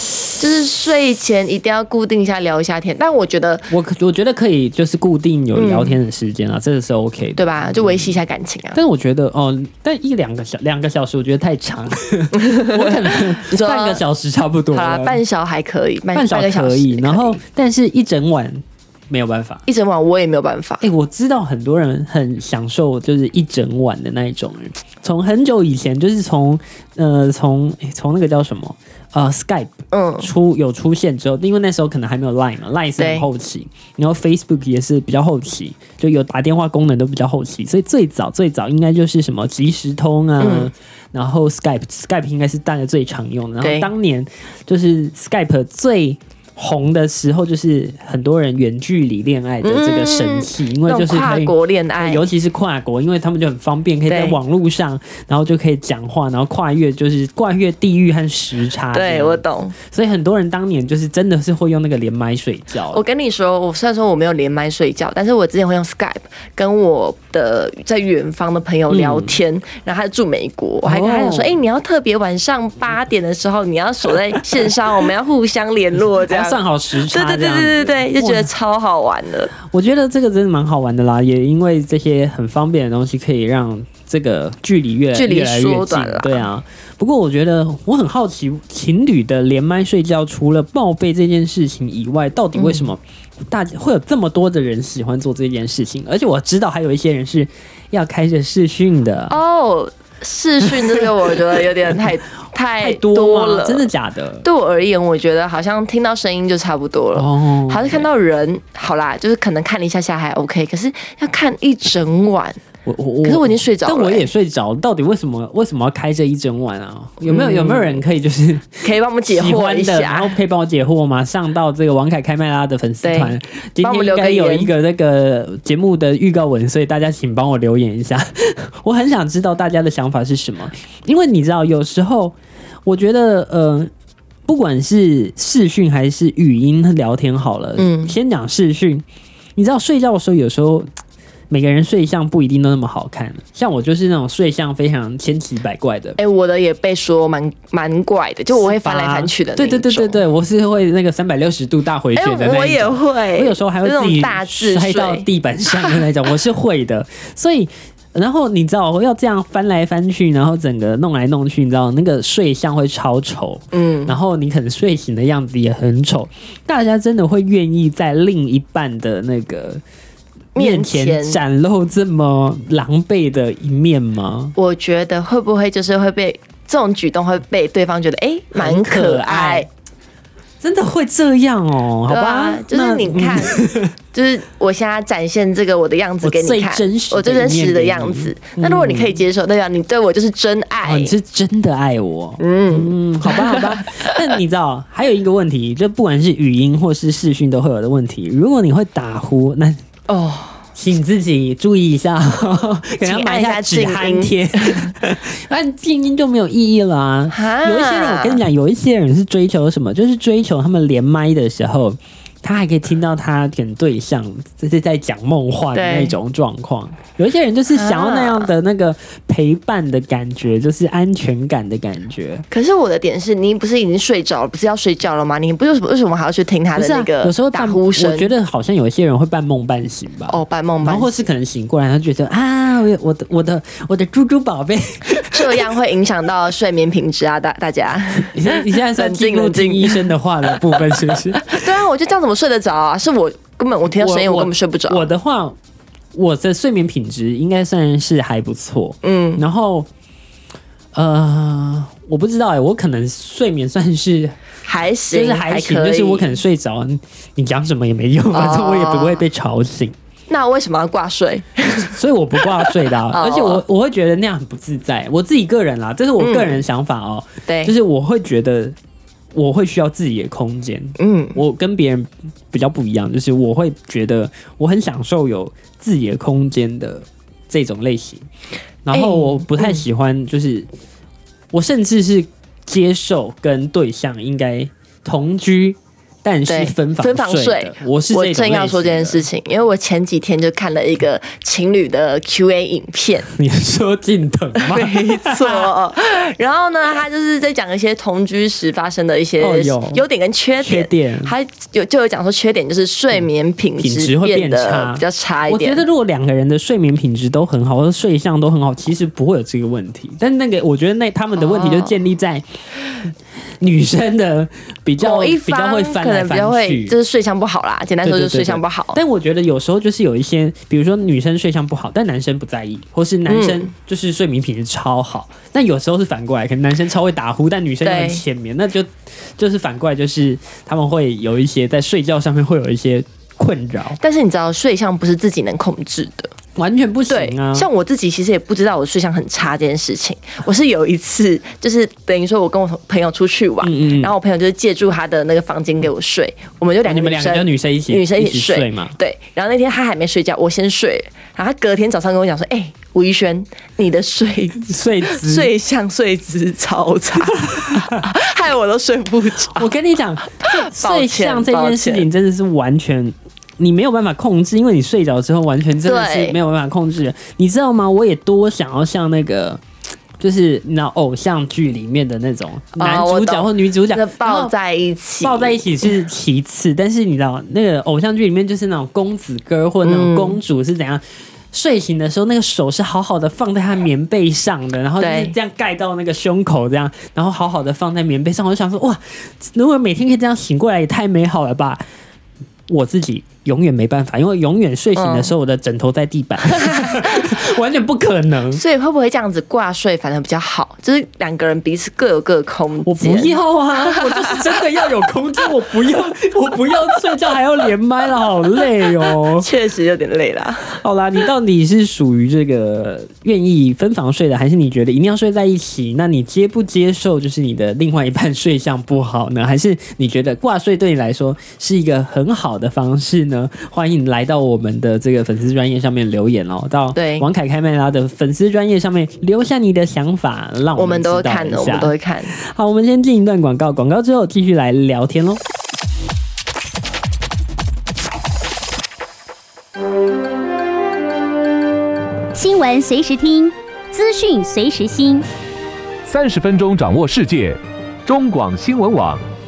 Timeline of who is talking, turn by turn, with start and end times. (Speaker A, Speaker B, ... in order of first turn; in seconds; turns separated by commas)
Speaker A: 0.4-3.7, Speaker B: 3.7-8.2, Speaker A: 5.5-6.0, Speaker A: 7.4-8.8, Speaker B: 8.7-15.2, Speaker A: 12.3-14.0, Speaker A: 14.7-17.4, Speaker B: 16.1-19.6, Speaker A: 19.7-20.9, Speaker B: 20.8-63.0, Speaker A: 29.9-30.3, Speaker A: 33.0-33.3, Speaker A: 40.4-40.7, Speaker A: 43.6-43.9, Speaker A: 49.6-52.2, Speaker A: 54.1-54.4, Speaker A: 58.9-59.8, Speaker A: 62.9-79.5, Speaker B: 68.9-69.4, Speaker B: 70.8-71.6, Speaker B: 76.2-78.5, Speaker B: 79.6-99.4, Speaker A: 85.1-86.4, Speaker A: 92.5-92.9, Speaker A: 99.3-103.9, Speaker B: 100.7-102.1, Speaker B: 102.8-104.5, Speaker A: 104.4-112.6, Speaker B: 107.1-108.1, Speaker B: 112.8-133.9, Speaker A: 113.2-114.3, Speaker A: 117.2-118.0, Speaker A: 118.8-120.3, Speaker A: 123.0-124.7, Speaker B: 134.5-139.1, Speaker A: 137.8-138.2, Speaker B: 139.6-140.9, Speaker B: 141.5-146.2, Speaker A: 146.2-150.2, Speaker B: 148.5-169.8, Speaker A: 152.2-156.0, Speaker A: 163.7-164.2, Speaker A: 170.6-171.4, Speaker B: 170.6-174.6, Speaker A: 174.6-179.7, Speaker B: 178.6-179.7, Speaker B: 180.6-183.9, Speaker A: 182.1-191.1, Speaker B: 186.2-189.2, Speaker B: 190.8-199.8, Speaker A: 192.4-194.2, Speaker A: 200.1-200.6, Speaker B: 200.8-222.4, Speaker A: 203.0-204.9, Speaker A: 207.3-208.4, Speaker A: 215.7-216.1, Speaker A: 217.7-218.5, Speaker A: 222.5-228.3, Speaker B: 226.8-235.6, Speaker A: 230.3-231.2, Speaker A: 235.2-240.1, Speaker B: 238.2-241.7, Speaker A: 241.4-245.1, Speaker B: 243.9-245.6, Speaker B: 246.1-249.9, Speaker A: 249.0-249.4, Speaker B: 250.9-254.4, Speaker A: 254.6-256.4, Speaker B: 255.1-260.0, Speaker A: 258.3-259.2, Speaker A: 260.3-263.6, Speaker B: 261.8-268.8, Speaker A: 266.2-266.6, Speaker A: 267.5-267.7, Speaker B: 269.3-278.3, Speaker A: 271.0-271.4, Speaker B: 278.9-280.7, Speaker A: 278.9-279.8, Speaker B: 281.5-289.2, Speaker A: 286.5-293.3, Speaker B: 293.3-295.7, Speaker A: 294.6-305.8, Speaker B: 299.4-300.0, Speaker B: 300.6-301.3, Speaker B: 303.8-312.4, Speaker A: 311.4-311.9, Speaker B: 313.0-317.0, Speaker A: 315.0-319.0, Speaker B: 318.0-334.0, Speaker A: 323.3-323.7, Speaker A: 327.8-328.2, Speaker A: 334.0-336.3, Speaker B: 336.6-337.7, Speaker A: 337.1-359.7, Speaker B: 343.6-344.1, Speaker B: 346.9-348.9, Speaker B: 354.6-355.5, Speaker B: 357.4-358.1, Speaker B: 359.5-369.6, Speaker A: 360.3-362.1, Speaker A: 365.8-366.4, Speaker B: 370.2-374.5, Speaker A: 372.8-375.9, Speaker B: 375.2-391.8, Speaker A: 379.8-380.4, Speaker A: 385.0-385.3, Speaker B: 392.7-398.6, Speaker A: 394.9-395.3, Speaker A: 396.5-397.3, Speaker A: 398.5-404.6, Speaker B: 402.9-409.5, Speaker A: 409.0-410.8, Speaker B: 410.8-435.4, Speaker A: 426.9-427.3, Speaker A: 430.8-432.4, Speaker C: 442.3-445.2, Speaker D: 446.1-449.2